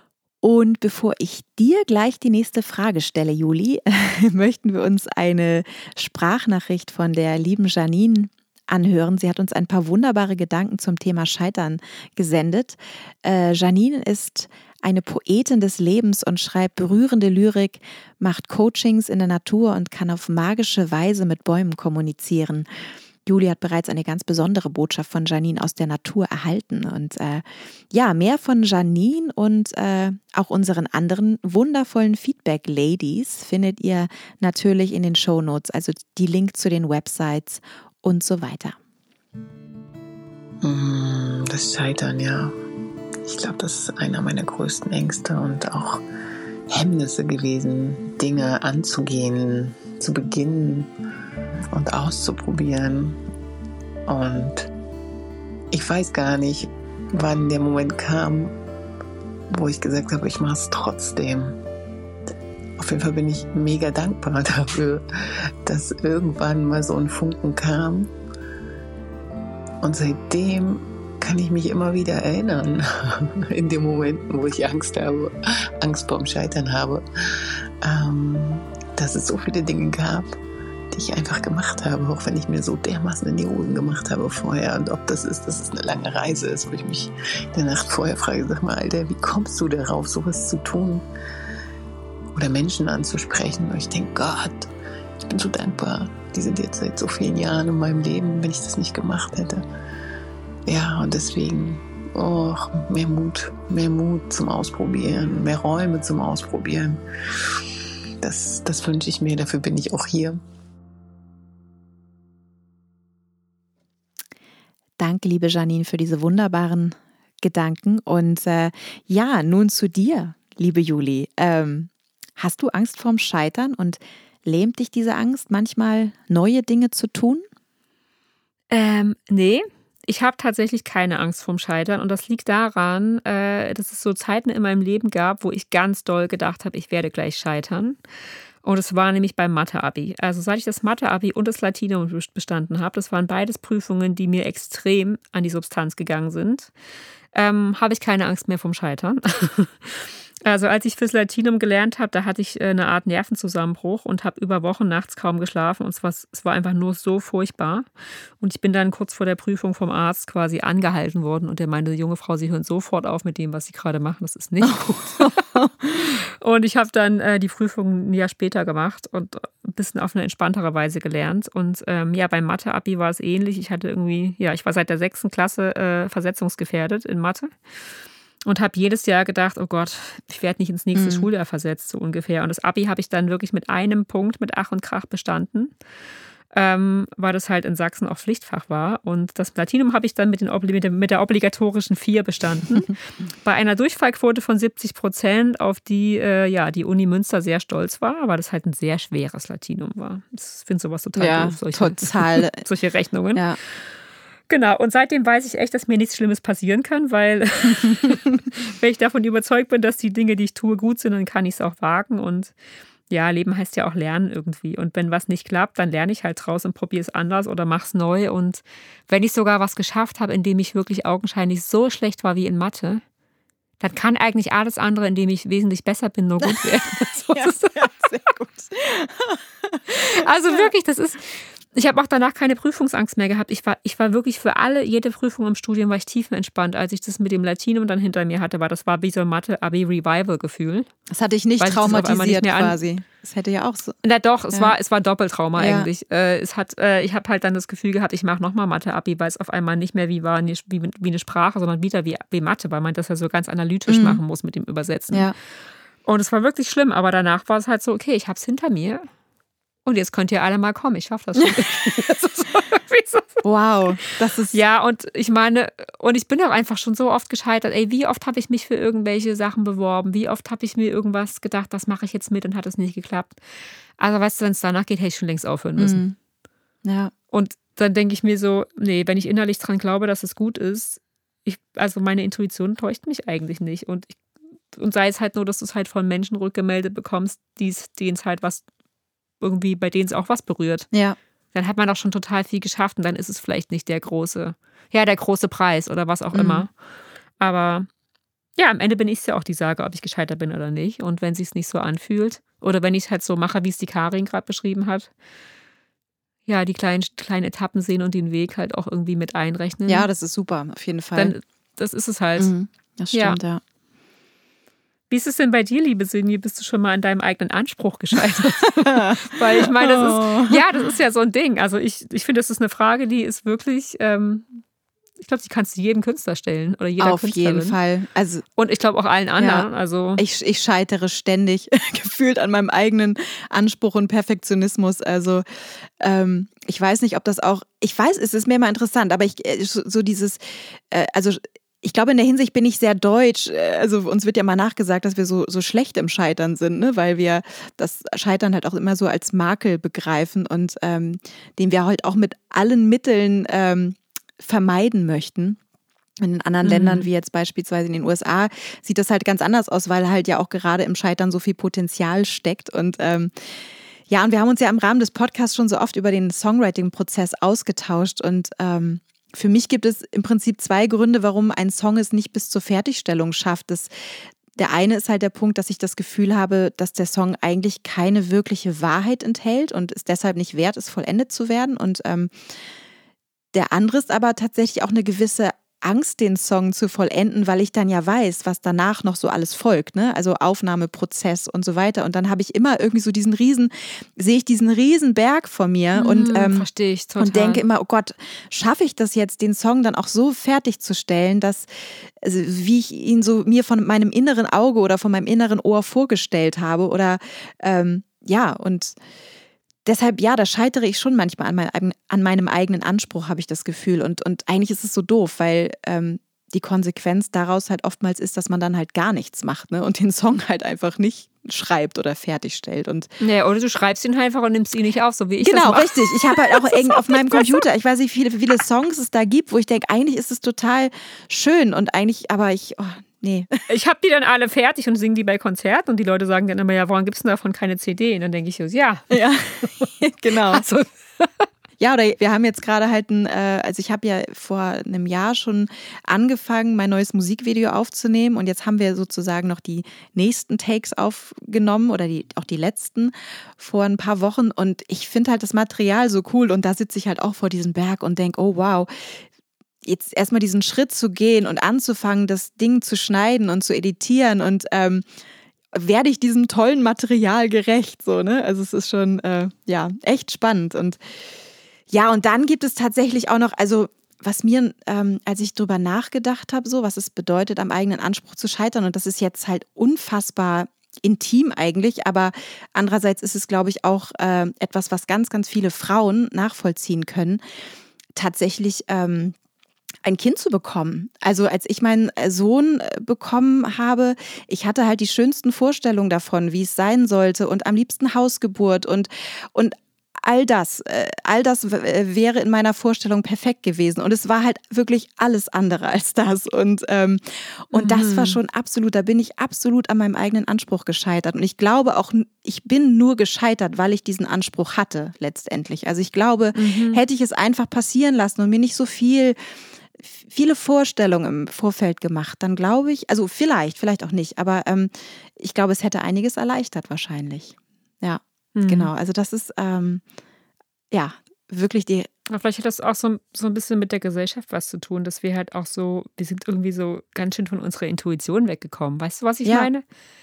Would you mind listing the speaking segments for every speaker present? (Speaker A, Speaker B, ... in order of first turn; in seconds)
Speaker A: 0.4-22.7, 23.2-38.8, 115.0-127.4, 164.6-166.1, 180.9-181.3, 201.2-202.6, 226.4-230.7, 241.1-244.0, 245.6-245.9, 253.9-254.2, 263.4-264.6, 275.8-276.1, 276.8-277.1, 296.3-296.6, 309.9-311.3, 312.4-313.6, 318.8-320.6, 327.0-328.4, 329.4-335.4, 336.0-355.6, 356.2-363.3, 364.1-382.3, 383.5-396.7, 397.2-409.0, 409.8-423.1, 425.4-433.5, 439.1-440.6, 441.8-459.2, 459.8-465.0, 465.7-471.0, 471.9-487.4, 488.1-489.4, 490.0-519.4, 520.0-530.0, 530.9-532.1, 539.4-539.7
Speaker B: 40.6-42.5, 43.2-46.0, 46.7-50.9, 51.7-53.2, 54.1-54.7, 55.7-58.5, 59.5-61.6, 62.8-65.0, 65.7-68.1, 69.8-77.0, 77.8-80.3, 80.9-91.0, 92.3-94.7, 95.3-99.6, 100.7-107.0, 108.2-110.4
Speaker C: 128.7-138.0, 138.6-146.7, 147.3-157.9, 158.4-165.4, 166.0-177.5, 178.4-185.7, 186.5-203.4, 204.5-212.5, 213.1-223.0, 223.8-227.9, 229.9-240.9, 241.6-242.8, 244.0-255.3, 256.0-259.1, 259.8-263.4, 264.5-273.4, 274.0-276.0, 277.3-284.2, 284.7-288.6, 289.4-290.9, 291.5-296.7, 297.4-297.9, 298.6-305.1, 306.4-310.1, 311.1-312.5, 313.1-313.4, 315.1-324.6, 325.2-327.8, 328.6-330.2, 356.6-357.1, 395.9-397.6, 423.2-427.6, 433.7-441.4, 507.7-508.4, 516.5-517.0, 528.5-528.9, 532.3-539.8